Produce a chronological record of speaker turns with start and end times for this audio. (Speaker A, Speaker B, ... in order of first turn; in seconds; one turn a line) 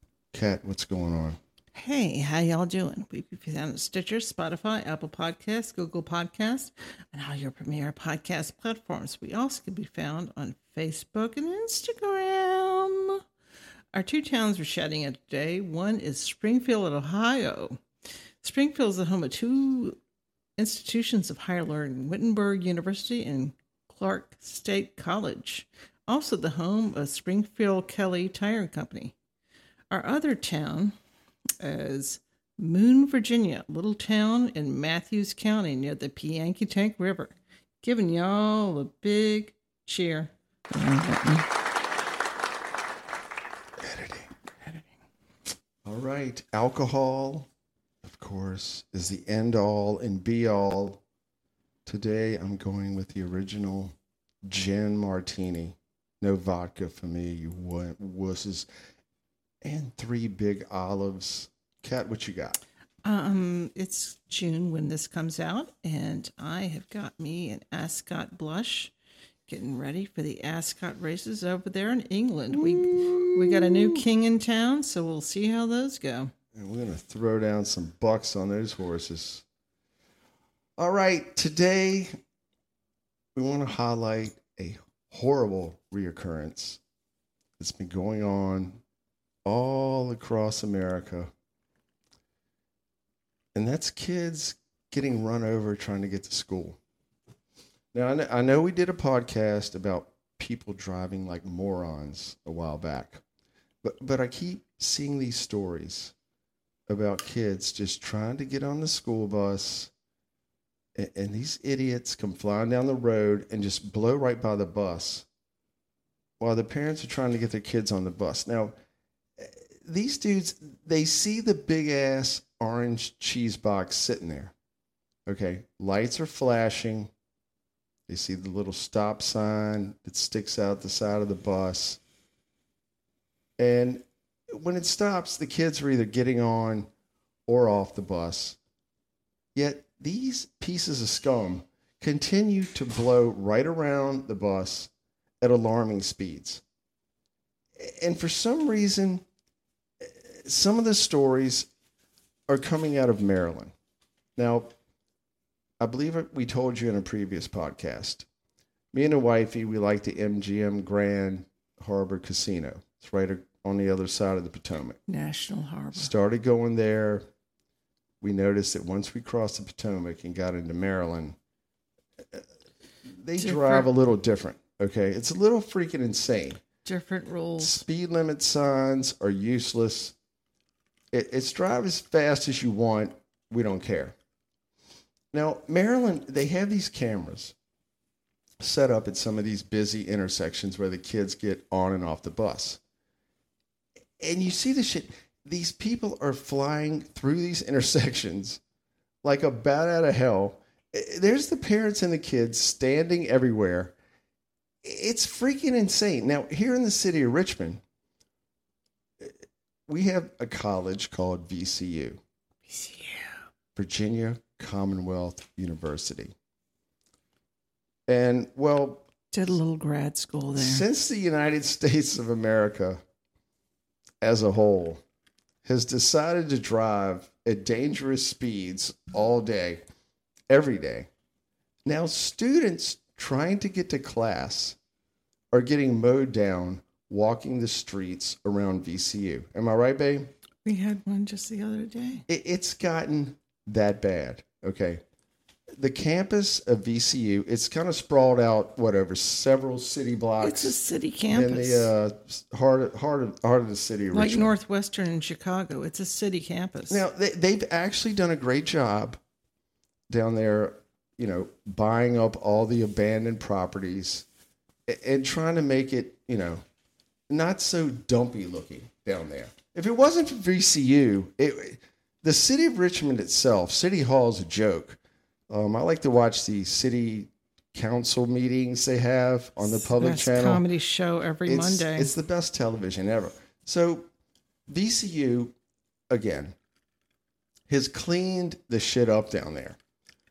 Speaker A: 0.3-1.4
Speaker B: 1.7-13.2
Speaker B: 13.9-17.8
Speaker B: 18.4-20.0
Speaker B: 20.6-29.1
Speaker B: 29.9-30.9
Speaker B: 31.6-41.5
Speaker A: 43.8-44.3
Speaker A: 45.8-47.5
Speaker A: 48.0-51.0
Speaker A: 51.9-58.7
Speaker A: 59.6-62.6
Speaker B: 63.0-68.9
Speaker B: 69.5-76.3
Speaker A: 72.5-74.0
Speaker A: 76.5-79.4
Speaker A: 80.8-82.2
Speaker A: 83.3-86.8
Speaker A: 87.6-88.8
Speaker A: 89.4-91.3
Speaker A: 93.5-96.8
Speaker A: 97.9-103.2
Speaker A: 103.8-106.1
Speaker A: 106.9-109.9
Speaker A: 110.9-115.3
Speaker A: 116.4-118.7
Speaker A: 119.4-124.5
Speaker A: 125.3-127.1
Speaker A: 128.1-132.0
Speaker A: 133.6-136.9
Speaker A: 137.5-138.6
Speaker A: 139.5-146.6
Speaker A: 147.8-149.2
Speaker A: 150.0-151.7
Speaker A: 152.5-153.7
Speaker A: 154.3-154.7
Speaker A: 155.8-158.3
Speaker A: 158.9-165.0
Speaker B: 165.1-166.1
Speaker A: 165.9-167.2
Speaker A: 168.2-171.3
Speaker A: 173.1-176.6
Speaker B: 173.4-173.9
Speaker B: 176.8-177.8
Speaker A: 177.6-180.1
Speaker A: 181.1-184.2
Speaker A: 185.3-187.5
Speaker A: 188.6-192.8
Speaker A: 194.2-198.6
Speaker A: 199.2-203.9
Speaker A: 204.8-207.8
Speaker A: 209.9-212.2
Speaker B: 212.7-213.4
Speaker A: 213.7-216.3
Speaker A: 218.1-219.1
Speaker B: 219.3-220.8
Speaker A: 220.5-223.0
Speaker A: 224.2-225.0
Speaker A: 225.6-229.8
Speaker A: 230.5-231.1
Speaker A: 231.8-234.8
Speaker A: 235.5-240.3
Speaker B: 240.6-242.2
Speaker A: 242.3-245.0
Speaker A: 245.8-250.8
Speaker B: 250.4-251.9
Speaker A: 251.3-254.5
Speaker B: 254.1-257.0
Speaker A: 256.9-259.2
Speaker A: 260.1-264.2
Speaker A: 264.9-266.6
Speaker A: 267.3-280.6
Speaker B: 279.8-282.1
Speaker A: 281.4-284.1
Speaker A: 284.7-285.5
Speaker A: 286.1-286.5
Speaker A: 287.7-289.8